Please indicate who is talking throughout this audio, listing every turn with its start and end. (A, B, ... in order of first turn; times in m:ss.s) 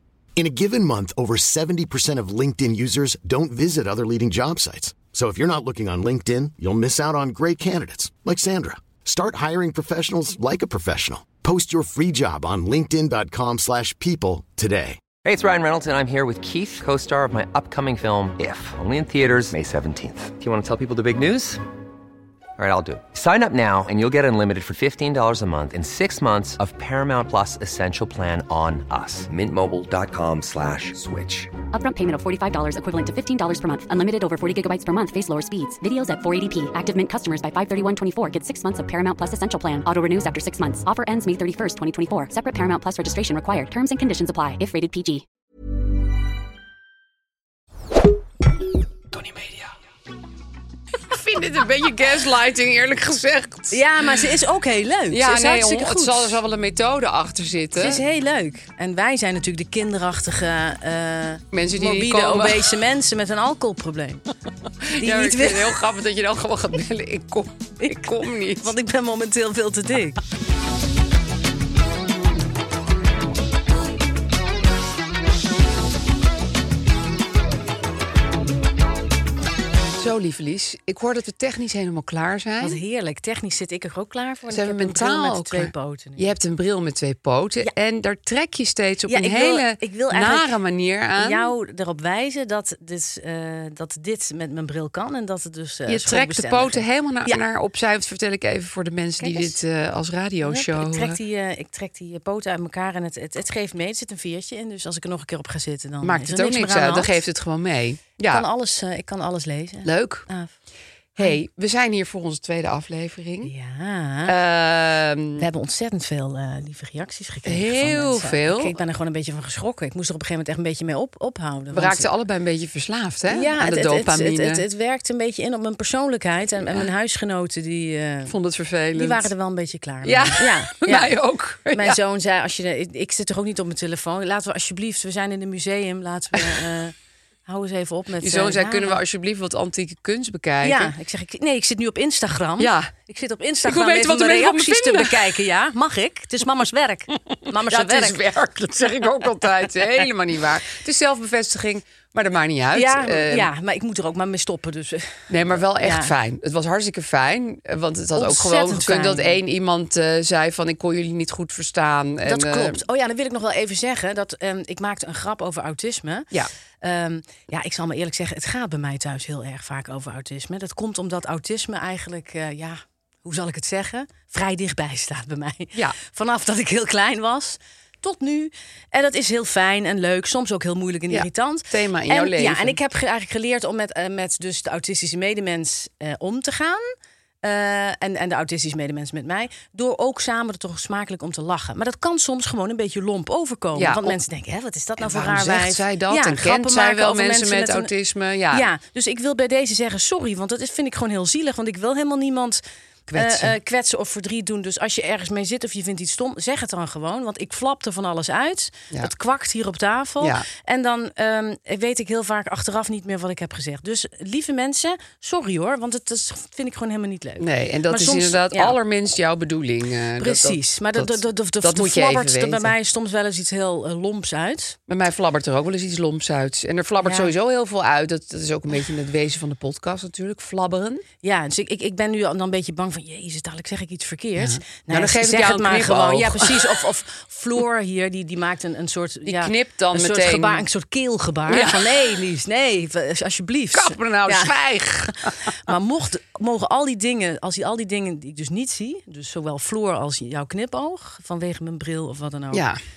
0:00.4-0:15.0 A
0:15.2-0:21.6 B
0:22.6-0:31.5 B
0:31.7-0:45.2 C
0:51.1-0:53.8 D
0:53.7-0:56.4 E
0:55.1-0:58.0 D
0:57.8-1:04.2 E
1:01.5-1:02.7 D
1:04.9-1:08.7 D
1:05.0-1:05.8 E
1:07.8-1:10.2 E
1:20.0-1:22.8 D
1:22.6-1:26.3 E
1:24.5-1:31.5 D
1:29.1-1:30.5 E
1:31.2-1:37.4 E
1:35.9-1:41.2 D
1:39.2-1:39.6 E
1:40.4-1:47.2 E
1:46.0-1:48.4 D
1:48.3-1:50.5 E
1:49.8-1:50.2 D
1:51.2-1:53.5 D
1:53.4-1:54.3 E
1:54.2-1:55.5 D
1:55.4-2:02.1 E
1:57.4-1:58.8 D
2:01.7-2:04.6 D
2:03.3-2:08.3 E
2:08.3-2:09.3 D
2:08.9-2:11.1 E
2:10.0-2:12.0 D
2:11.7-2:16.9 E
2:17.5-2:19.0 E
2:18.2-2:20.9 D
2:20.6-2:28.2 E
2:22.6-2:22.9 D
2:23.6-2:25.3 D
2:27.7-2:33.5 D
2:32.7-2:36.1 E
2:35.3-2:42.8 D
2:38.2-2:39.4 E
2:42.2-2:46.3 E
2:46.8-3:06.9 E
3:01.1-3:02.8 D
3:07.4-3:17.9 E
3:13.8-3:14.2 D
3:15.0-3:18.7 D
3:18.5-3:22.6 E
3:23.1-3:23.5 D
3:23.1-3:38.8 E
3:37.4-3:42.7 D
3:40.2-3:44.8 E
3:44.9-3:51.0 D
3:47.0-3:47.3 E
3:51.2-4:04.5 E
3:54.4-3:56.7 D
3:59.3-4:00.6 D
4:01.5-4:02.0 D
4:03.7-4:05.5 D
4:05.1-4:12.6 E
4:12.5-4:12.8 D